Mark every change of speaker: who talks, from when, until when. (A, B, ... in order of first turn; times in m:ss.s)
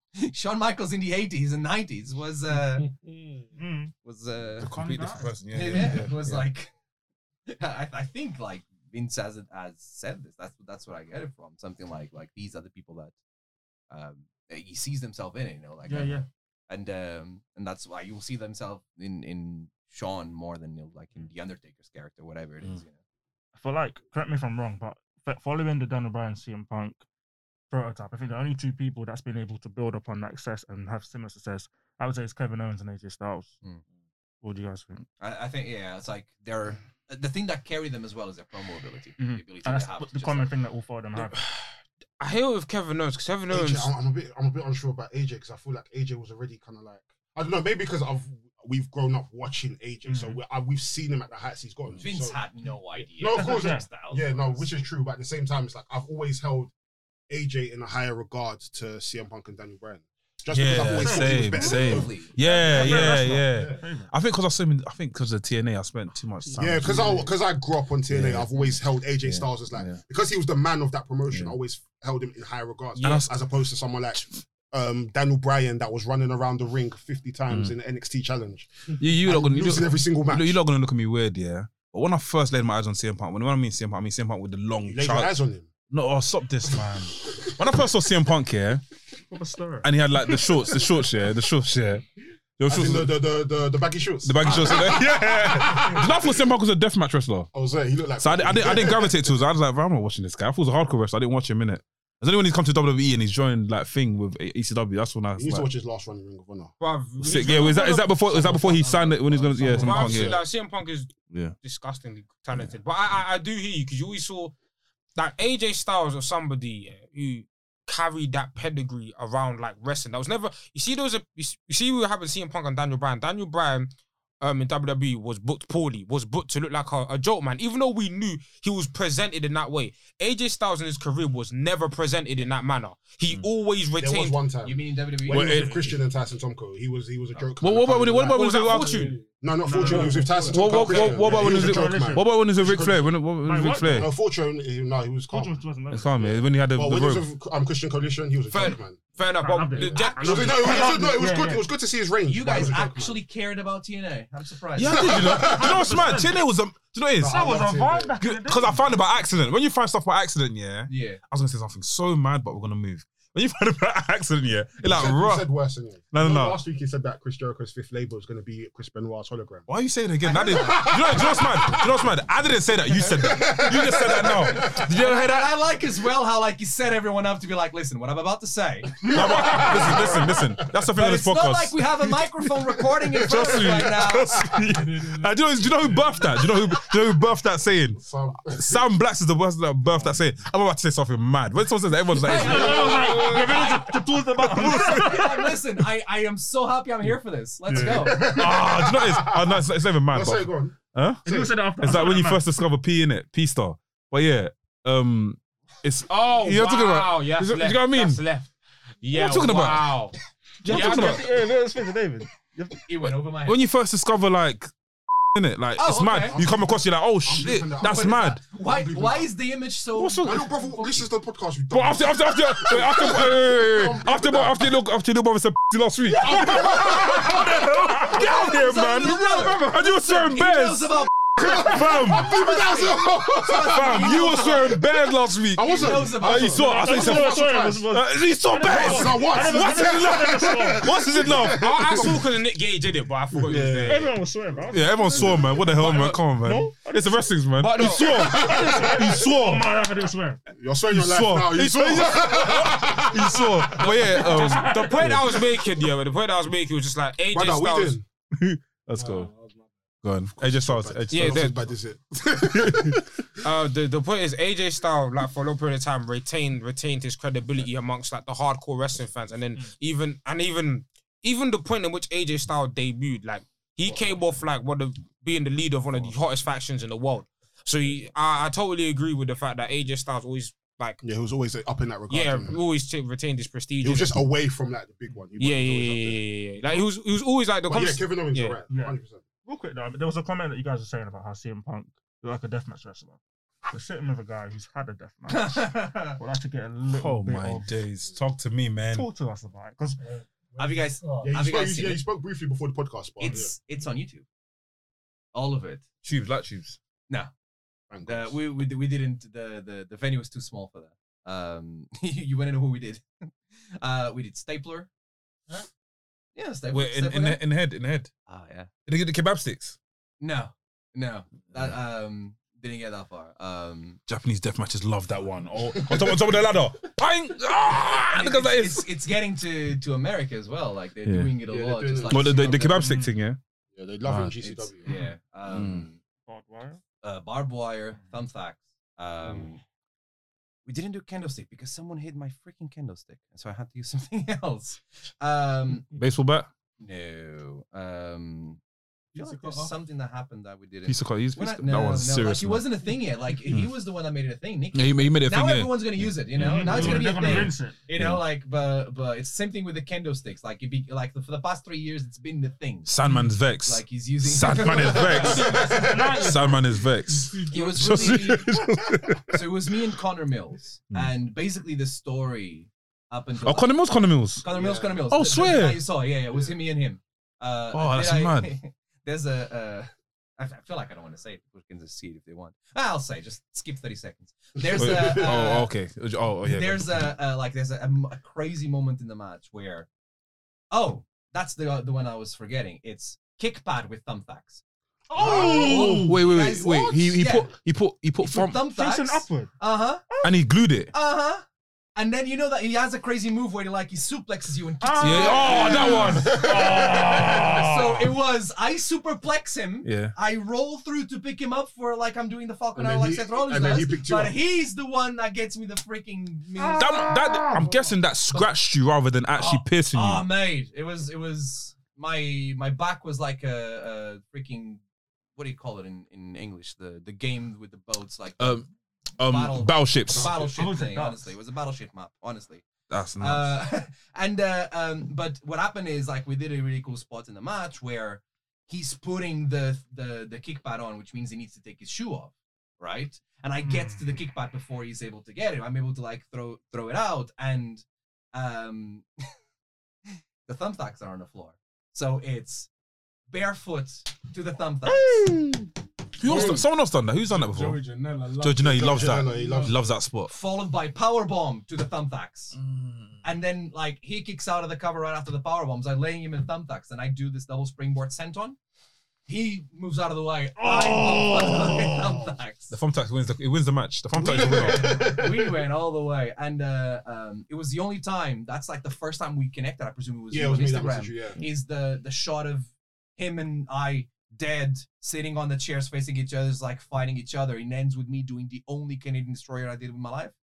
0:00.2-0:02.9 A
0:02.8-0:03.4 B
0:03.5-0:03.9 C
0:04.0-0:04.8 A
0:04.6-0:06.5 D
0:04.6-0:06.0 C
0:05.3-0:06.7 A
0:07.5-0:13.2 A
0:13.9-0:23.0 A
0:15.8-0:16.3 C
0:23.6-0:27.0 C
0:27.7-0:33.6 C
0:34.4-0:35.0 C
0:35.2-0:40.5 A
0:39.2-0:41.4 C
0:41.2-0:43.9 E
0:43.5-0:52.4 F
0:50.1-0:50.4 C
0:52.0-0:54.7 A
0:53.2-0:56.7 F
0:53.3-0:53.8 C
0:57.3-1:03.8 F
1:00.5-1:07.2 D
1:01.0-1:01.3 C
1:01.3-1:02.4 A
1:02.4-1:04.1 C
1:06.6-1:20.6 F
1:06.8-1:07.2 C
1:08.1-1:08.6 D
1:09.2-1:10.0 D
1:13.0-1:13.3 D
1:19.0-1:25.4 D
1:24.9-1:25.7 F
1:25.9-1:28.8 D
1:26.7-1:27.6 F
1:29.3-1:29.9 C
1:29.8-1:32.0 D
1:32.6-1:33.1 D
1:32.7-1:36.4 F
1:34.2-1:37.5 D
1:37.5-1:39.3 F
1:38.2-1:45.7 D
1:45.4-1:46.7 F
1:46.8-1:48.1 E
1:47.2-1:50.4 D
1:48.2-1:50.2 A
1:49.7-1:50.4 F
1:49.8-1:54.6 E
1:51.3-1:51.6 D
1:55.2-2:14.4 E
2:14.0-2:18.4 F
2:14.6-2:15.7 A
2:15.3-2:15.9 D
2:17.6-2:19.1 D
2:18.3-2:19.2 E
2:18.7-2:19.1 C
2:18.8-2:20.7 B
2:19.4-2:23.1 F
2:19.6-2:22.8 C
2:20.5-2:24.1 D
2:23.4-2:24.1 C
2:23.9-2:25.6 F
2:25.3-2:26.1 C
2:25.9-2:27.2 D
2:26.2-2:29.0 F
2:28.5-2:30.9 E
2:29.4-2:31.6 C
2:29.8-2:33.2 F
2:29.9-2:31.1 A
2:32.3-2:35.3 A
2:34.8-2:37.4 D
2:34.9-2:36.2 F
2:35.3-2:36.4 C
2:37.2-2:38.2 F
2:37.3-2:38.9 C
2:38.2-2:45.5 D
2:40.9-2:41.2 A
2:44.8-2:49.7 F
2:46.1-2:46.6 D
2:49.7-2:55.6 D
2:50.2-2:51.2 A
2:50.3-2:52.1 F
2:52.9-2:54.9 F
2:54.6-3:00.2 A
2:59.1-3:02.1 D
2:59.1-3:00.7 F
2:59.2-2:59.9 C
3:00.9-3:04.5 A
3:03.1-3:13.7 D
3:03.4-3:03.8 F
3:04.7-3:06.3 B
3:08.0-3:08.8 F
3:12.2-3:18.3 A
3:12.2-3:15.6 C
3:12.5-3:12.8 F
3:14.6-3:15.2 D
3:17.7-3:21.5 F
3:17.8-3:28.2 D
3:21.2-3:22.4 C
3:26.1-3:28.5 E
3:29.0-3:31.2 E
3:29.1-3:30.0 D
3:30.6-3:32.8 C
3:30.6-3:31.3 D
3:32.9-3:33.6 A
3:33.4-3:34.7 D
3:35.3-3:38.4 D
3:35.8-3:36.4 A
3:36.3-3:39.3 F
3:37.8-3:41.0 A
3:40.0-3:40.5 D
3:40.2-3:44.7 F
3:41.7-3:52.4 D
3:46.2-3:48.4 C
3:46.2-3:47.7 F
3:48.1-3:51.6 A
3:51.4-3:54.5 F
3:52.2-3:54.8 A
3:53.5-4:02.2 D
3:55.5-3:57.8 F
3:55.7-3:57.3 A
3:56.5-4:01.0 C
3:58.6-4:02.3 F
4:01.4-4:04.1 E
4:03.3-4:04.2 F
4:03.9-4:07.3 C
4:04.7-4:09.7 D
4:05.2-4:05.6 F
4:07.6-4:08.6 E
4:07.8-4:10.4 C
4:08.0-4:09.2 F
4:10.5-4:13.9 F
4:10.9-4:15.4 D
4:13.7-4:18.0 E
4:14.1-4:15.1 C
4:17.3-4:18.0 F
4:18.3-4:19.3 D
4:19.0-4:19.7 B
4:20.0-4:21.6 D
4:20.3-4:23.0 F
4:21.1-4:21.5 E
4:22.5-4:23.1 D
4:23.4-4:41.0 E
4:41.0-4:42.6 F
4:42.1-4:44.2 E
4:43.8-4:46.2 F
4:45.4-4:48.6 E
4:47.7-4:49.2 F
4:48.7-4:57.8 C
4:55.3-4:56.2 A
4:56.9-4:59.1 D
4:58.9-5:00.2 C
5:00.5-5:01.3 B
5:00.6-5:02.0 A
5:01.2-5:03.5 F
5:03.2-5:04.2 A
5:05.3-5:05.8 A
5:06.0-5:06.8 D
5:07.9-5:08.4 F
5:08.0-5:14.9 A
5:16.4-5:17.4 A
5:16.7-5:18.1 D
5:18.3-5:18.7 A
5:18.9-5:19.8 D
5:20.2-5:24.0 A
5:24.1-5:28.9 D
5:25.8-5:26.2 F
5:28.1-5:32.8 A
5:31.0-5:31.4 D
5:31.5-5:32.8 F
5:32.1-5:33.4 D
5:32.8-5:33.2 C
5:33.7-5:34.9 F
5:34.1-5:34.4 D
5:34.4-5:36.0 A
5:35.5-5:35.9 D
5:36.3-5:36.8 C
5:37.0-5:39.6 A
5:40.7-5:45.9 A
5:45.9-5:46.5 D
5:46.8-5:48.6 A
5:49.1-5:49.7 B
5:49.2-6:03.0 A
5:50.8-5:52.8 D
5:53.5-5:53.7 D
5:54.7-5:58.2 D
5:56.3-5:57.8 C
6:02.9-6:09.4 D
6:03.6-6:06.2 A
6:05.1-6:06.6 C
6:05.3-6:06.0 F
6:07.5-6:08.5 A
6:09.3-6:13.8 A
6:13.4-6:14.4 D
6:14.4-6:25.7 A
6:14.5-6:15.0 F
6:15.1-6:15.8 D
6:17.7-6:18.5 D
6:24.8-6:27.0 D
6:24.8-6:25.4 F
6:26.4-6:29.9 A
6:30.7-6:34.6 A
6:35.1-6:36.2 C
6:35.2-6:35.8 F
6:35.2-6:37.5 A
6:35.2-6:38.6 D
6:38.2-6:40.1 A
6:38.7-6:39.5 C
6:40.1-6:40.4 C
6:40.2-6:40.9 D
6:40.9-6:41.4 A
6:42.0-6:57.2 A
6:44.8-6:47.6 C
6:45.0-6:48.1 D
6:46.2-6:46.8 F
6:49.8-6:50.2 D
6:52.8-6:54.4 F
6:56.6-6:57.8 C
6:56.8-7:00.3 D
6:59.3-7:04.8 A
7:05.4-7:08.6 A
7:08.4-7:08.7 D
7:09.2-7:10.4 D
7:09.2-7:12.6 A
7:10.1-7:10.5 F
7:10.5-7:11.3 C
7:12.9-7:13.6 D
7:13.2-7:29.1 A
7:23.6-7:24.1 C
7:30.5-7:32.7 A
7:33.3-7:35.2 A
7:36.2-7:37.8 D
7:36.3-7:36.6 B
7:37.3-7:39.8 B
7:38.4-7:40.3 D
7:38.6-7:39.8 F
7:40.3-7:42.6 A
7:42.6-7:43.2 D
7:43.2-7:48.6 A
7:49.3-7:52.8 A
7:50.6-7:51.8 C
7:52.7-7:55.0 D
7:54.2-7:55.7 F
7:54.2-8:10.4 A
8:00.3-8:01.4 F